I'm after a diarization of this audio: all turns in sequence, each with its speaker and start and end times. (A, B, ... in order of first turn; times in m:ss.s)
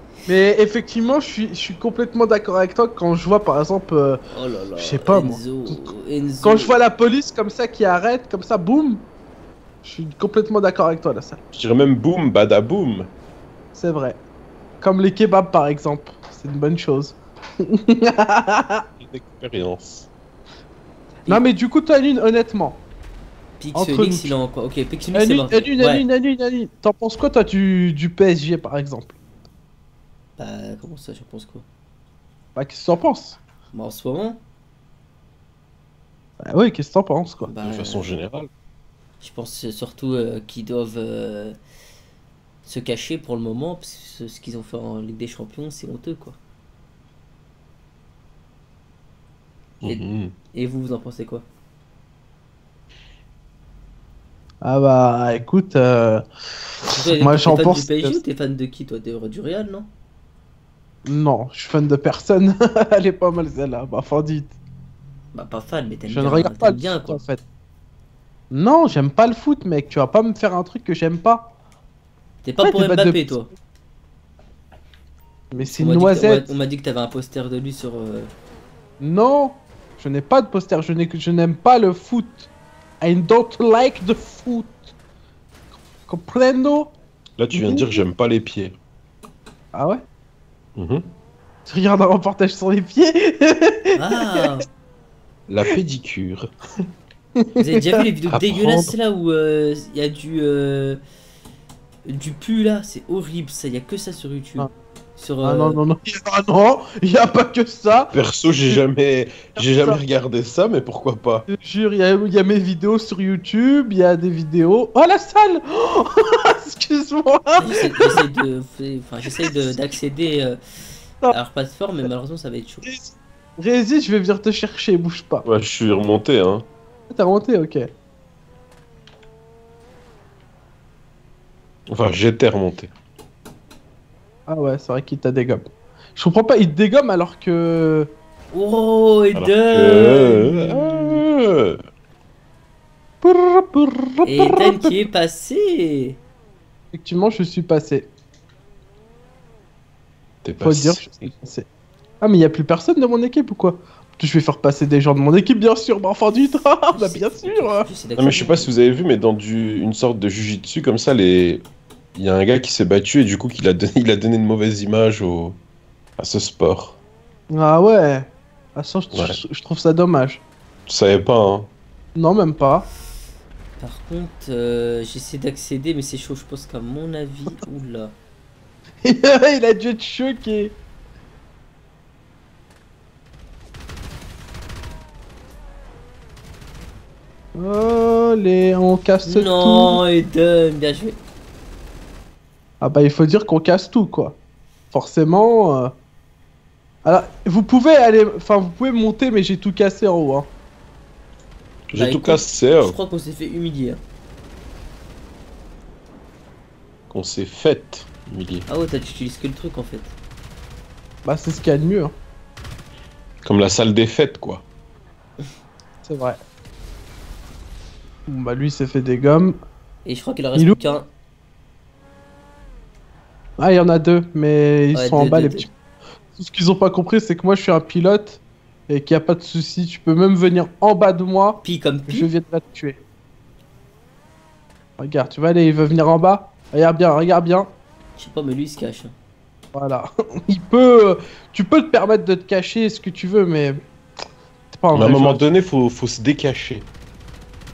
0:00.3-0:04.2 A
0:04.3-0:06.8 B
0:04.8-0:05.9 A
0:06.4-0:09.0 A
0:09.8-0:11.4 A
0:11.5-0:13.1 C
0:13.7-0:14.2 A
0:14.8-0:18.8 A
0:19.0-0:20.1 C
0:21.3-0:22.8 A
0:23.6-0:26.0 B
0:23.7-0:24.4 A
0:25.1-0:29.2 A
0:30.4-0:31.6 B
0:32.5-0:33.4 A
0:33.7-0:34.4 B
0:36.4-0:37.5 A
0:37.4-0:38.1 B
0:37.6-0:38.5 C
0:39.2-0:41.6 B
0:42.6-0:46.4 B
0:49.8-0:50.3 C
0:49.8-0:51.4 B
0:54.6-0:56.3 A
0:56.8-0:58.2 A
0:56.9-0:59.9 B
1:01.0-1:04.5 A
1:05.3-1:07.2 B
1:06.1-1:07.4 A
1:08.5-1:11.5 A
1:12.4-1:13.5 B
1:12.6-1:13.5 A
1:15.5-1:16.5 A
1:15.8-1:18.3 B
1:19.0-1:22.5 A
1:23.0-1:24.9 A
1:26.1-1:26.9 A
1:27.4-1:28.8 C
1:27.5-1:28.0 A
1:29.7-1:30.0 A
1:30.8-1:31.1 C
1:31.6-1:34.0 A
1:33.9-1:34.6 B
1:35.5-1:36.5 C
1:37.4-1:38.0 A
1:37.6-1:41.0 B
1:38.3-1:39.0 C
1:42.0-1:45.8 B
1:45.4-1:48.1 A
1:48.1-1:51.5 C
1:49.6-1:50.0 A
1:51.5-1:58.1 A
1:57.6-2:00.6 B
1:59.5-1:59.8 A
2:01.2-2:02.9 B
2:02.8-2:05.4 A
2:05.4-2:06.7 C
2:07.1-2:07.9 A
2:11.9-2:12.9 C
2:14.5-2:18.1 A
2:18.5-2:21.2 B
2:19.3-2:21.8 C
2:23.2-2:24.9 A
2:24.2-2:26.2 B
2:26.9-2:28.1 A
2:30.4-2:31.3 C
2:30.6-2:31.6 A
2:32.2-2:37.9 A
2:36.9-2:38.7 B
2:38.2-2:45.6 C
2:46.2-2:47.0 C
2:47.5-2:50.4 A
2:49.1-2:49.4 C
2:50.9-2:51.7 C
2:52.2-2:52.8 A
2:53.8-2:58.2 B
2:59.0-3:00.7 A
3:07.5-3:10.0 A
3:09.2-3:11.2 B
3:12.8-3:14.4 A
3:14.9-3:15.9 A
3:17.0-3:20.5 A
3:21.9-3:23.0 C
3:21.9-3:24.0 B
3:27.1-3:28.7 C
3:28.7-3:30.1 B
3:31.2-3:32.1 A
3:33.4-3:34.6 C
3:36.0-3:36.4 A
3:38.3-3:39.6 A
3:40.0-3:41.1 B
3:43.6-3:45.7 A
3:44.9-3:45.7 B
3:46.3-3:53.0 A
3:51.6-3:52.3 B
3:55.0-3:57.7 A
3:58.2-3:59.1 B
3:59.7-4:03.8 A
4:04.7-4:05.4 A
4:04.9-4:06.9 C